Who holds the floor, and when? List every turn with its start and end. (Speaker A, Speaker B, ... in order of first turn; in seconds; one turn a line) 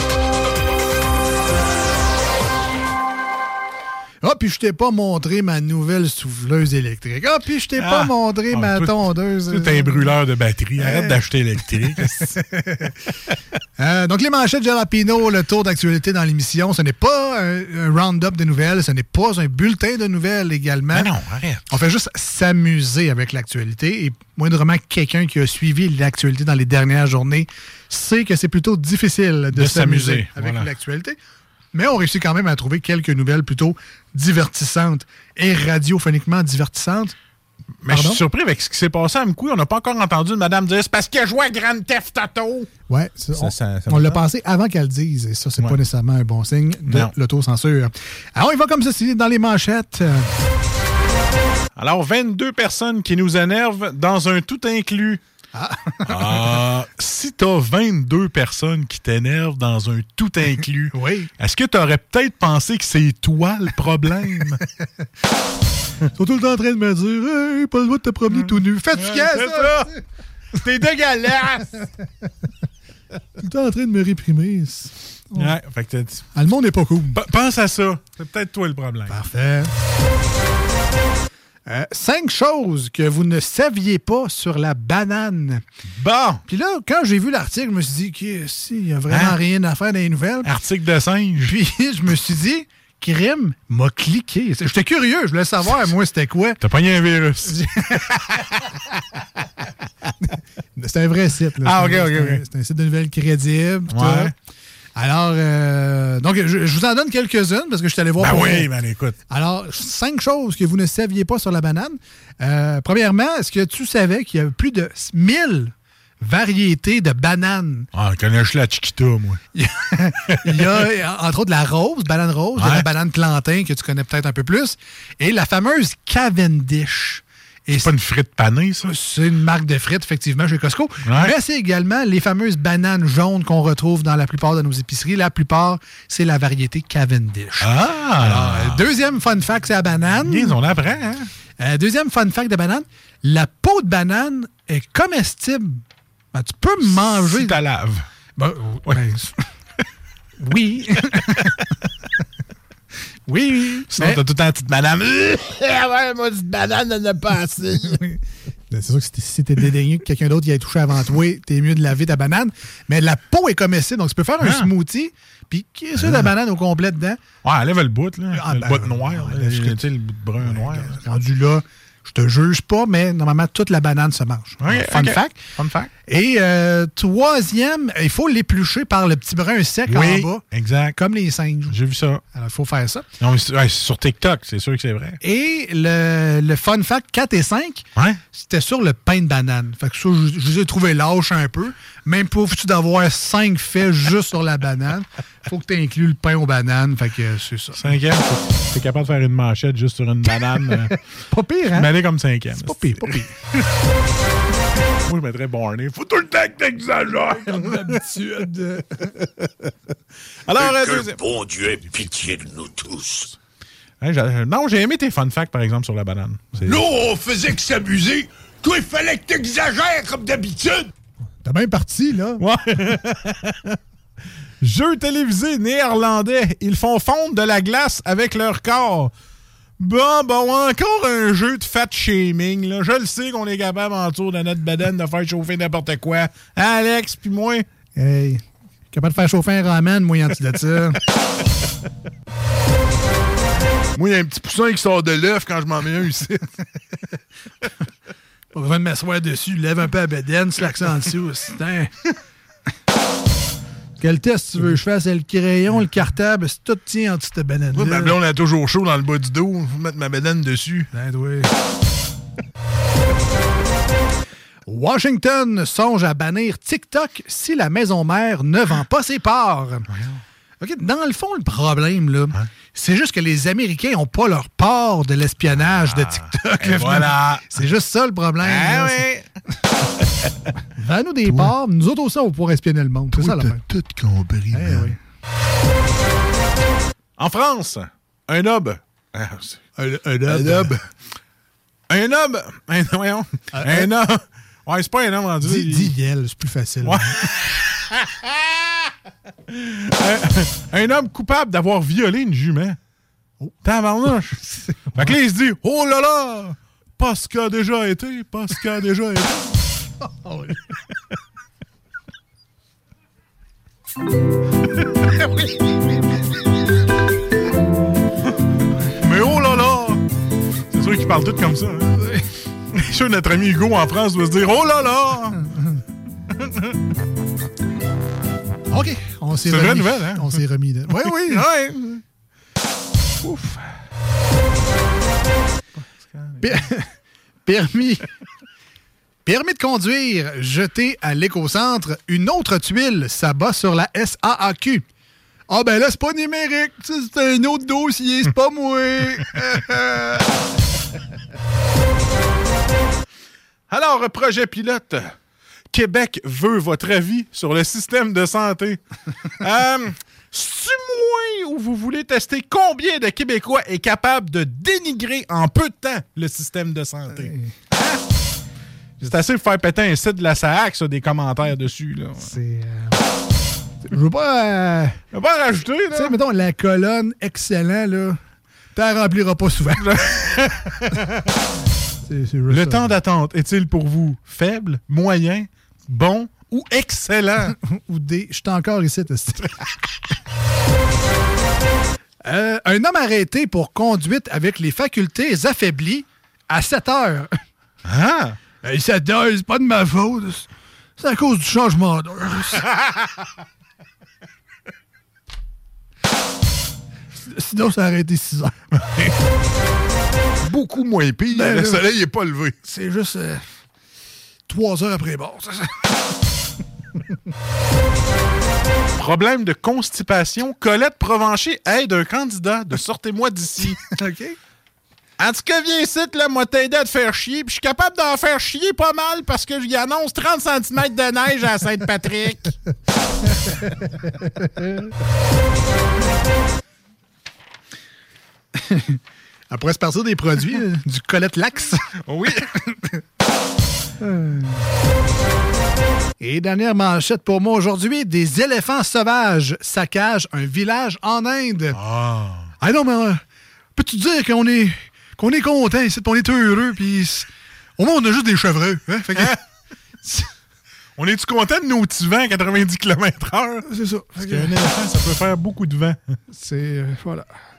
Speaker A: 4.2-10.1
Speaker B: 7.8-12.4
Speaker A: 10.8-11.2
Speaker A: 12.1-13.0
Speaker A: 13.8-21.1
Speaker B: 20.9-21.8
Speaker A: 21.7-31.2
Speaker B: 29.5-30.7
Speaker A: 31.7-37.1
Speaker B: 37.8-42.7
Speaker A: 37.9-38.2
Speaker A: 42.9-50.3
Speaker B: 43.3-44.2
Speaker B: 46.9-47.1
Speaker B: 51.8-55.2
Speaker A: 55.5-56.5
Speaker B: 56.0-64.6
Speaker A: 60.9-61.3
Speaker A: 66.1-70.0
Speaker B: 68.3-69.9
Speaker B: 70.5-71.9
Speaker A: 73.4-75.5
Speaker B: 75.3-76.3
Speaker A: 76.3-77.2
Speaker B: 77.1-79.2
Speaker A: 79.1-79.7
Speaker A: 81.7-85.6
Speaker B: 86.0-86.4
Speaker A: 86.5-90.5
Speaker B: 89.1-89.4
Speaker B: 90.4-91.5
Speaker A: 91.4-96.6
Speaker B: 96.6-98.1
Speaker A: 97.5-98.5
Speaker A: 100.3-104.3
Speaker B: 101.6-102.4
Speaker B: 103.9-104.3
Speaker A: 104.9-108.7
Speaker B: 108.2-109.2
Speaker A: 109.3-117.9
Speaker B: 117.9-119.4
Speaker A: 119.5-127.9
Speaker B: 120.3-120.7
Speaker B: 122.5-122.9
Speaker B: 127.7-128.9
Speaker A: 128.8-140.6
Speaker B: 131.0-131.3
Speaker B: 137.6-138.8
Speaker B: 140.2-141.3
Speaker A: 141.6-147.6
Speaker B: 146.8-148.1
Speaker A: 148.4-149.4
Speaker A: 150.4-151.5
Speaker B: 151.1-151.6
Speaker A: 153.3-154.2
Speaker B: 153.9-158.0
Speaker A: 157.9-158.2
Speaker A: 158.7-167.2
Speaker B: 164.4-164.7
Speaker B: 166.0-166.3
Speaker B: 167.4-171.0
Speaker A: 168.3-169.9
Speaker A: 170.4-175.4
Speaker B: 174.6-175.9
Speaker A: 176.0-180.4
Speaker B: 179.9-181.0
Speaker A: 180.9-181.8
Speaker B: 181.7-182.2
Speaker A: 182.3-183.1
Speaker B: 183.2-185.2
Speaker A: 185.2-197.9
Speaker B: 197.7-201.0
Speaker A: 201.3-201.9
Speaker B: 201.7-203.0
Speaker A: 202.5-203.3
Speaker B: 205.0-208.0
Speaker A: 207.4-208.9
Speaker B: 209.0-209.5
Speaker B: 210.4-211.3
Speaker C: 210.8-212.9
Speaker B: 214.0-216.9
Speaker C: 216.8-220.9
Speaker A: 221.4-222.4
Speaker B: 222.4-223.8
Speaker B: 224.6-229.1
Speaker B: 229.8-237.7
Speaker A: 237.9-241.0
Speaker B: 243.9-246.5
Speaker A: 248.5-251.9
Speaker A: 254.0-258.2
Speaker B: 257.7-260.9
Speaker A: 260.9-261.5
Speaker A: 264.6-269.9
Speaker B: 269.9-270.2
Speaker A: 270.6-279.1
Speaker B: 275.9-277.5
Speaker B: 278.4-279.3
Speaker A: 280.7-283.6
Speaker B: 281.2-281.5
Speaker B: 283.1-284.9
Speaker A: 284.5-285.0
Speaker B: 287.2-289.6
Speaker A: 289.8-290.8
Speaker B: 290.3-290.8
Speaker B: 291.9-295.9
Speaker A: 293.5-293.9
Speaker A: 295.4-297.2
Speaker B: 296.8-298.7
Speaker B: 299.5-302.8
Speaker B: 303.6-309.6
Speaker A: 304.4-305.2
Speaker A: 310.0-310.6
Speaker B: 319.0-320.0
Speaker B: 320.7-325.4
Speaker B: 326.3-326.7
Speaker A: 328.7-331.4
Speaker B: 329.4-332.0
Speaker B: 333.2-333.7
Speaker B: 335.8-336.6
Speaker A: 336.4-336.9
Speaker A: 337.4-338.1
Speaker A: 339.2-344.8
Speaker A: 345.5-350.4
Speaker B: 353.7-355.1
Speaker B: 355.7-358.8
Speaker B: 359.4-368.0
Speaker A: 367.1-367.5
Speaker B: 369.0-372.3
Speaker A: 372.2-373.0
Speaker A: 373.8-375.0
Speaker B: 375.1-376.2
Speaker A: 375.9-378.2
Speaker A: 378.7-379.9
Speaker B: 379.8-381.1
Speaker A: 382.0-383.0
Speaker B: 382.5-387.5
Speaker A: 387.5-389.6
Speaker A: 392.2-397.3
Speaker B: 397.8-398.4
Speaker A: 398.6-402.7
Speaker A: 407.1-409.1
Speaker B: 410.4-412.6
Speaker A: 411.3-411.9
Speaker A: 412.6-413.4
Speaker A: 414.5-416.0
Speaker B: 419.0-423.9
Speaker A: 423.9-424.4
Speaker B: 425.2-432.5
Speaker A: 433.4-434.9
Speaker A: 438.6-439.0
Speaker A: 439.5-442.9
Speaker B: 442.0-442.5
Speaker A: 444.0-444.6
Speaker A: 446.2-451.8
Speaker B: 451.7-452.5
Speaker A: 452.6-453.2
Speaker A: 453.7-459.4
Speaker B: 459.1-459.4
Speaker A: 460.0-460.3
Speaker B: 460.9-466.0
Speaker A: 463.6-464.6
Speaker A: 466.3-467.3